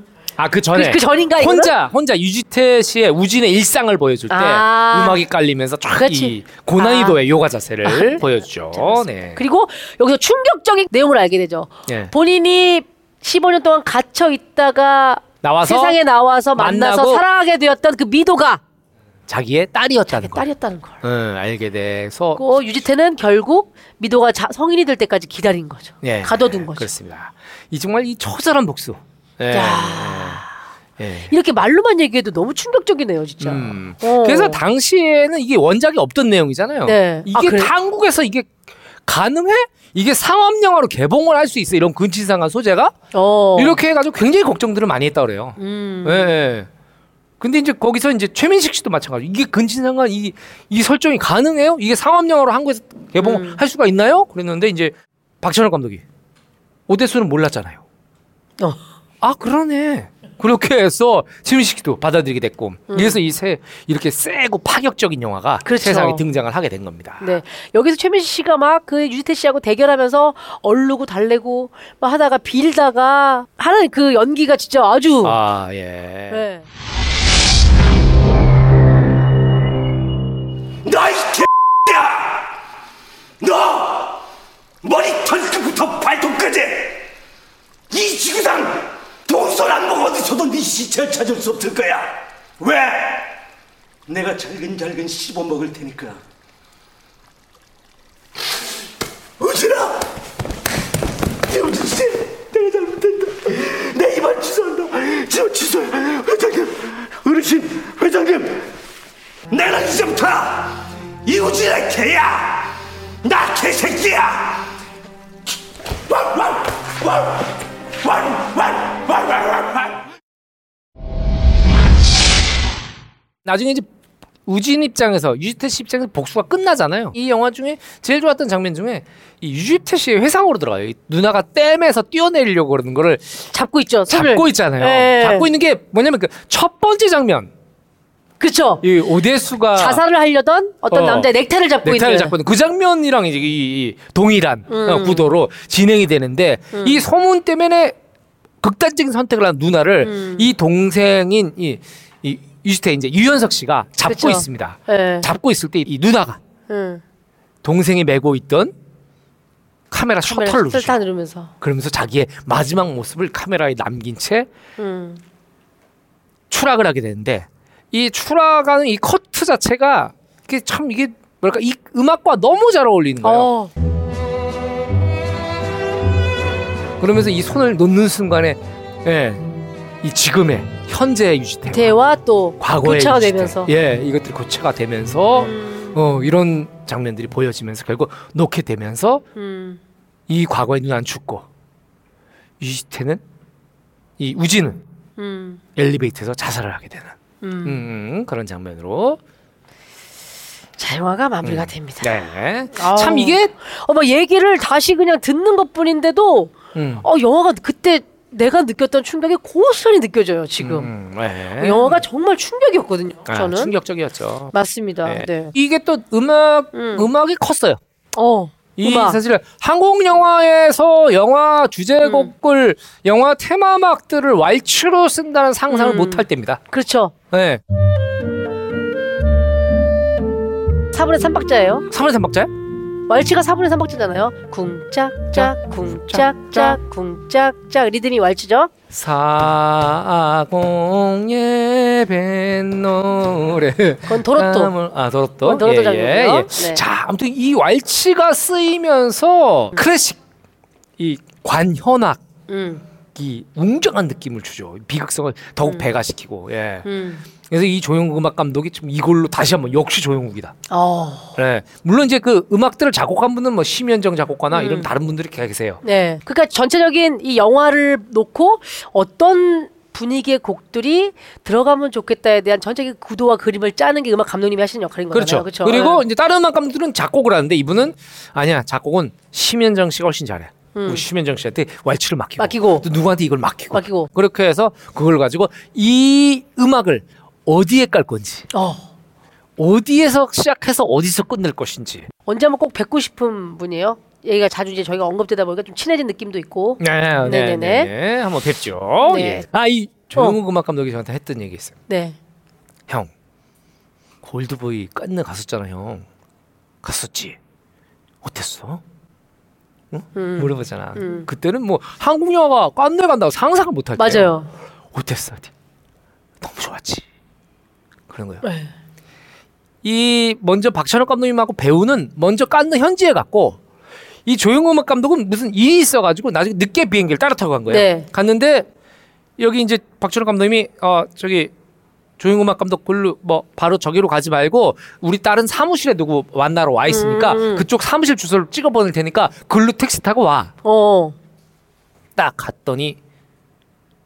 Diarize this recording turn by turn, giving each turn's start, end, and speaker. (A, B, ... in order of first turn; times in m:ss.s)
0:00.4-0:09.4 A
0:00.7-0:01.7 B
0:04.3-0:05.2 B
0:06.0-0:07.2 B
0:07.8-0:18.6 B
0:11.9-0:12.1 A
0:15.4-0:16.0 A
0:16.6-0:17.2 A
0:19.3-0:20.5 A
0:20.2-0:21.0 B
0:21.0-0:22.6 A
0:22.4-0:26.9 B
0:26.0-0:30.4 A
0:29.5-0:30.5 B
0:31.0-0:31.3 A
0:31.3-0:34.6 B
0:33.4-0:42.9 A
0:36.8-0:37.7 B
0:43.1-0:43.8 B
0:43.6-0:46.7 A
0:45.6-0:46.3 B
0:47.4-0:56.0 A
0:53.2-0:53.6 B
0:56.9-0:57.8 A
0:59.2-1:07.3 A
1:02.9-1:03.2 B
1:05.6-1:06.2 B
1:07.2-1:15.4 B
1:15.2-1:16.4 A
1:16.3-1:16.6 B
1:20.8-1:22.4 C
1:23.4-1:24.2 C
1:24.8-1:27.1 C
1:27.9-1:33.4 C
1:34.1-1:36.2 C
1:39.4-1:40.1 C
1:41.5-1:48.7 C
1:49.5-1:54.7 C
1:56.1-1:57.5 C
1:58.0-2:00.0 C
2:03.4-2:03.9 A
2:04.4-2:13.4 A
2:13.5-2:15.5 B
2:14.1-2:17.5 A
2:18.4-2:18.8 B
2:18.8-2:20.0 A
2:19.7-2:22.3 B
2:20.9-2:21.3 A
2:21.8-2:28.0 A
2:24.7-2:25.3 B
2:26.7-2:27.0 B
2:28.6-2:36.4 A
2:30.0-2:30.5 B
2:34.1-2:35.3 B
2:36.7-2:37.0 B
2:37.6-2:38.7 A
2:39.9-2:41.0 A
2:40.2-2:41.5 B
2:41.6-2:44.5 A
2:44.8-2:45.2 B
2:46.5-2:53.5 A
2:53.2-2:53.7 B
2:57.0-2:59.4 A
3:00.0-3:02.0 A
3:01.7-3:03.7 B
3:02.6-3:09.2 A
3:05.4-3:06.0 B
3:09.4-3:09.8 B
3:10.3-3:11.4 A
3:12.6-3:13.2 A
3:14.2-3:14.8 A
3:15.2-3:15.6 B
3:15.8-3:19.2 A
3:17.4-3:17.8 B
3:20.8-3:22.2 B
3:21.4-3:23.5 A
3:22.7-3:30.9 B
3:26.7-3:27.0 A
3:30.6-3:32.0 A
3:31.6-3:33.7 B
3:33.3-3:34.5 A
3:34.5-3:35.5 B
3:35.0-3:37.8 A
3:36.7-3:37.1 B
3:38.1-3:39.2 B
3:38.8-3:46.6 A
3:42.0-3:42.3 B
3:45.7-3:47.1 B
3:47.3-3:47.6 A
3:50.9-3:51.8 B
3:51.9-3:52.5 A
3:53.1-3:58.7 B
3:55.3-3:56.8 A
3:58.9-4:10.2 A
4:04.0-4:04.7 B
4:05.4-4:06.8 B
4:11.0-4:12.2 A
4:12.5-4:12.8 B
4:13.1-4:16.8 A
4:16.8-4:17.2 B
4:17.5-4:20.5 A
4:20.7-4:21.3 B
4:21.4-4:25.8 A
4:24.5-4:24.9 B
4:25.8-4:36.0 B
4:35.1-4:48.5 A
4:40.7-4:41.0 B
4:42.4-4:42.9 B
4:43.7-4:44.1 B
4:48.5-4:48.8 B
4:49.6-4:52.1 A
4:52.2-4:57.9 B
4:56.8-5:01.8 A
4:59.0-4:59.4 B
5:01.9-5:02.2 B
5:04.2-5:06.0 A
5:06.8-5:07.4 A
5:08.2-5:08.8 A
5:09.9-5:14.3 A
5:10.1-5:11.3 B
5:14.0-5:14.5 B
5:14.9-5:15.5 A
5:16.4-5:17.0 A
5:18.1-5:18.4 A
5:18.4-5:18.7 B
5:19.8-5:23.6 A
5:24.2-5:28.7 A
5:27.7-5:28.1 B
5:29.4-5:31.5 A
5:32.2-5:40.5 A
5:36.9-5:37.6 B
5:40.6-5:41.2 B
5:42.2-5:43.0 A